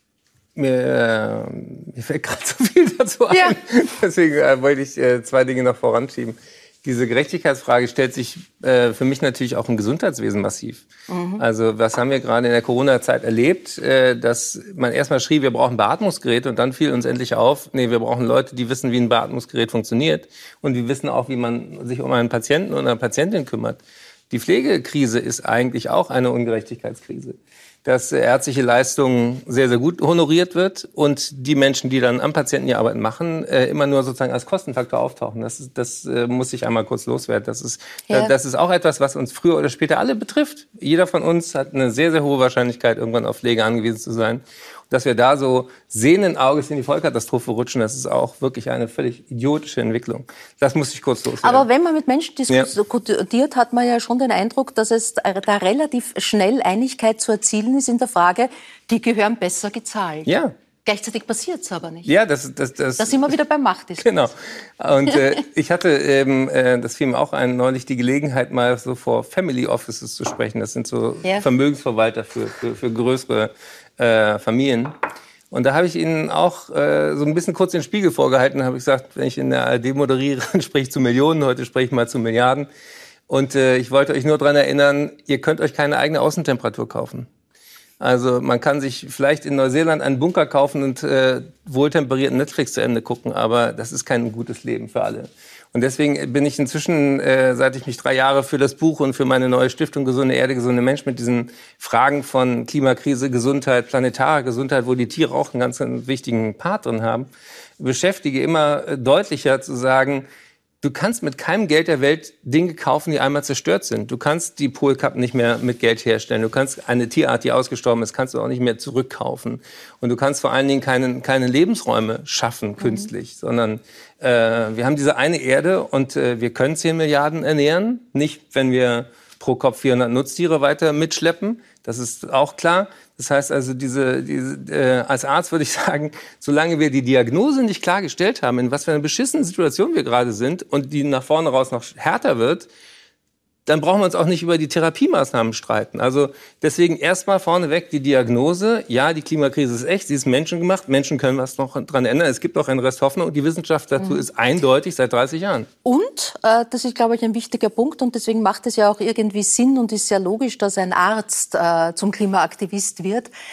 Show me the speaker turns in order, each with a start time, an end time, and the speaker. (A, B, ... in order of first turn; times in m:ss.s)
0:00.6-0:10.8 A
0:03.3-0:03.6 B
0:11.1-0:11.4 B
0:11.4-0:51.7 A
0:51.4-1:02.1 B
1:00.3-1:00.5 A
1:02.1-1:03.3 A
1:03.0-1:04.2 B
1:04.0-1:14.9 A
1:15.5-1:22.7 A
1:23.3-1:27.3 A
1:28.0-1:47.3 A
1:47.8-1:50.3 A
1:50.8-2:22.7 A
2:02.8-2:03.1 B
2:23.7-2:35.7 A
2:35.8-2:43.3 B